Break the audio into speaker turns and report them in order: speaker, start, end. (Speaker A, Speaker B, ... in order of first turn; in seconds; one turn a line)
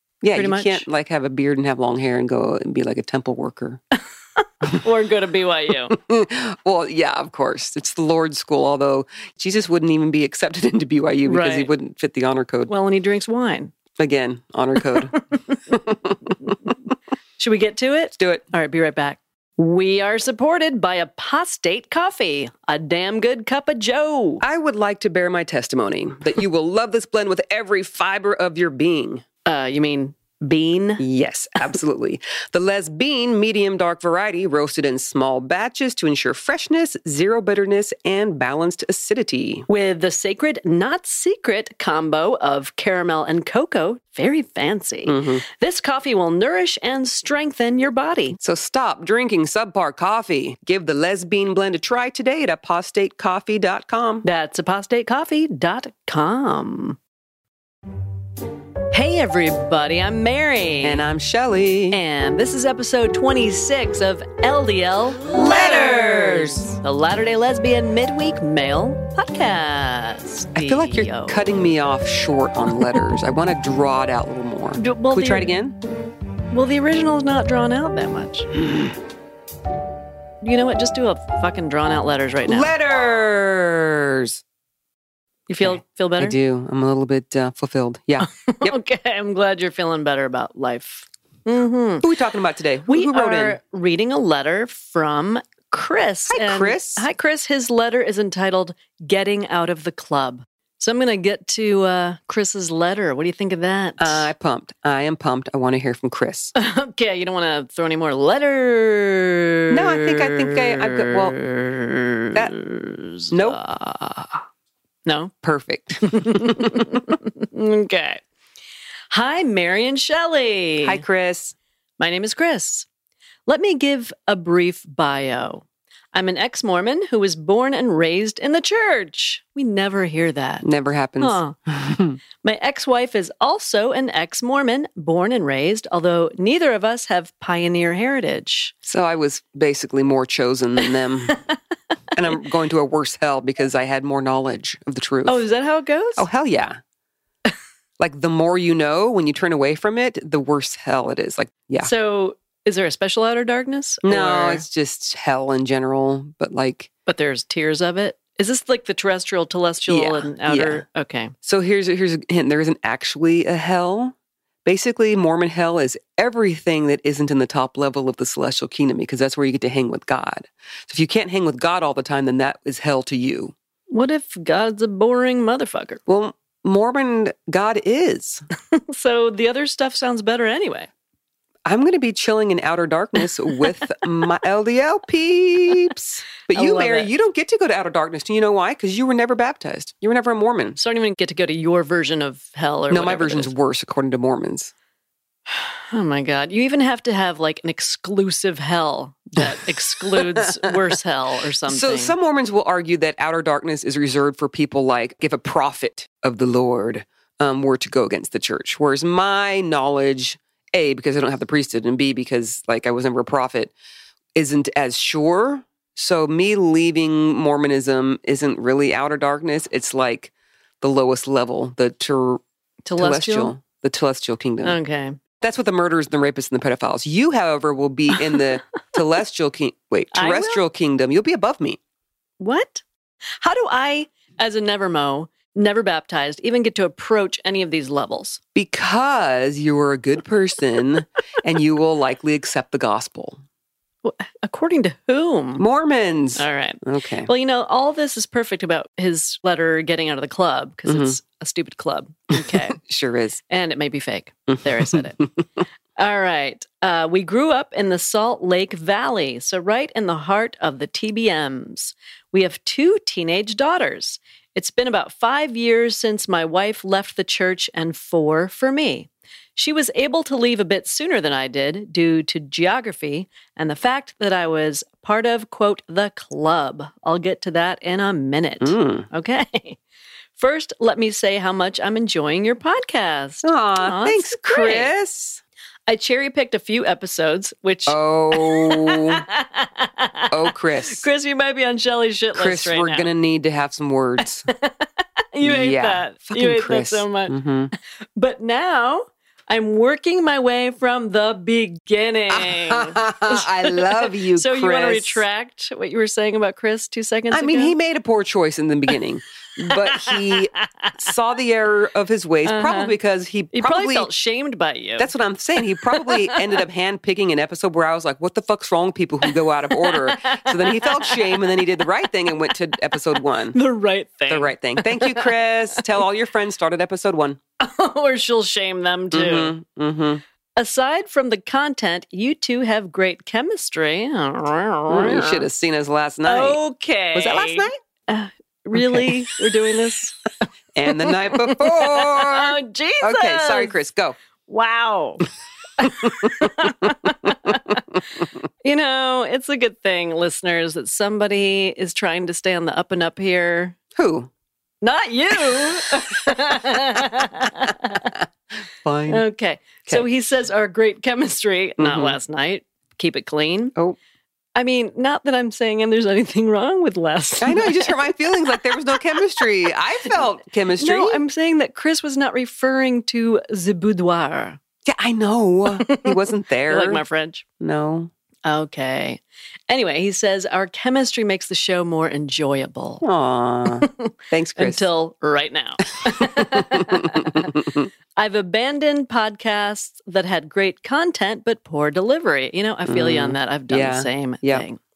Speaker A: 0.2-3.8
Speaker B: 0.3-0.8
Speaker B: 4.4-5.9
Speaker A: 5.9-12.7
Speaker B: 11.2-11.7
Speaker B: 12.7-13.7
Speaker A: 14.0-15.2
Speaker B: 15.5-15.8
Speaker A: 15.7-16.7
Speaker B: 17.4-24.4
Speaker A: 18.2-18.4
Speaker A: 24.4-29.2
Speaker B: 29.4-31.0
Speaker A: 31.0-39.6
Speaker B: 39.7-48.4
Speaker A: 45.0-45.4
Speaker A: 48.4-54.2
Speaker B: 54.2-57.0
Speaker B: 58.9-61.0
Speaker A: 60.8-62.0
Speaker B: 61.9-71.4
Speaker A: 65.2-66.7
Speaker A: 70.5-75.8
Speaker B: 74.8-75.5
Speaker B: 76.5-78.5
Speaker A: 78.5-78.9
Speaker B: 80.4-82.7
Speaker A: 82.5-84.4
Speaker B: 85.5-86.3
Speaker A: 85.6-88.8
Speaker B: 88.2-92.1
Speaker A: 92.0-93.6
Speaker B: 92.9-104.3
Speaker A: 96.3-97.0
Speaker A: 104.0-106.5
Speaker B: 106.5-114.4
Speaker A: 109.7-111.3
Speaker A: 113.3-113.6
Speaker B: 115.0-115.3
Speaker A: 115.4-117.0
Speaker B: 116.0-118.2
Speaker B: 119.1-121.0
Speaker A: 120.8-121.5
Speaker B: 122.0-122.9
Speaker B: 123.5-130.7
Speaker A: 130.6-132.2
Speaker B: 131.2-131.6
Speaker B: 132.4-138.7
Speaker A: 138.8-141.3
Speaker A: 142.1-145.4
Speaker B: 145.2-146.3
Speaker A: 146.2-146.8
Speaker A: 148.0-151.9
Speaker B: 151.8-154.6
Speaker A: 154.0-156.9
Speaker B: 157.1-161.3
Speaker A: 159.9-160.8
Speaker A: 161.4-173.5
Speaker B: 173.9-176.0
Speaker A: 176.1-178.4
Speaker B: 178.7-180.9
Speaker A: 181.7-190.8
Speaker B: 186.5-187.1
Speaker B: 190.8-193.5
Speaker A: 192.9-194.7
Speaker B: 195.5-202.1
Speaker A: 200.1-200.7
Speaker A: 201.6-213.7
Speaker A: 214.3-222.4
Speaker B: 222.8-223.5
Speaker A: 223.0-224.8
Speaker B: 224.6-225.2
Speaker A: 225.4-231.8
Speaker B: 230.1-230.6
Speaker B: 232.4-232.8
Speaker B: 233.4-238.4
Speaker A: 238.5-243.4
Speaker B: 244.0-245.6
Speaker A: 245.6-247.3
Speaker B: 246.3-252.8
Speaker A: 250.9-251.2
Speaker A: 252.3-253.4
Speaker B: 253.5-255.2
Speaker A: 254.6-255.3
Speaker B: 256.0-279.8
Speaker A: 278.6-279.1
Speaker B: 280.4-284.9
Speaker A: 283.4-285.4
Speaker B: 285.9-293.1
Speaker A: 287.9-289.2
Speaker A: 290.3-291.0
Speaker A: 292.3-294.5
Speaker B: 294.5-297.3
Speaker A: 295.4-297.7
Speaker B: 298.1-307.7
Speaker A: 302.3-305.2
Speaker A: 307.3-314.1
Speaker B: 309.6-310.9
Speaker B: 312.4-312.9
Speaker B: 313.5-315.1
Speaker A: 315.0-323.6
Speaker B: 315.8-316.4
Speaker B: 319.3-321.8
Speaker B: 323.5-325.8
Speaker A: 324.3-327.4
Speaker B: 327.6-329.5
Speaker A: 329.1-330.2
Speaker B: 330.6-335.4
Speaker A: 334.9-336.6
Speaker B: 336.2-340.2
Speaker A: 337.1-337.7
Speaker A: 338.7-339.4
Speaker A: 340.7-344.1
Speaker B: 340.9-343.8
Speaker B: 344.5-347.8
Speaker A: 345.8-346.7
Speaker A: 347.2-348.2
Speaker B: 348.6-353.8
Speaker A: 353.9-354.3
Speaker B: 354.8-358.2
Speaker A: 355.6-357.0
Speaker A: 357.9-358.2
Speaker A: 358.8-359.2
Speaker B: 359.1-363.7
Speaker A: 361.8-362.1
Speaker B: 364.6-369.4
Speaker A: 367.4-371.2
Speaker B: 370.8-374.6
Speaker A: 374.8-377.0
Speaker B: 375.7-376.2
Speaker B: 376.7-377.4
Speaker A: 377.6-378.1
Speaker B: 378.4-383.0
Speaker A: 383.0-384.9
Speaker B: 383.8-387.5
Speaker A: 386.0-387.9
Speaker B: 388.1-394.8
Speaker A: 392.9-394.6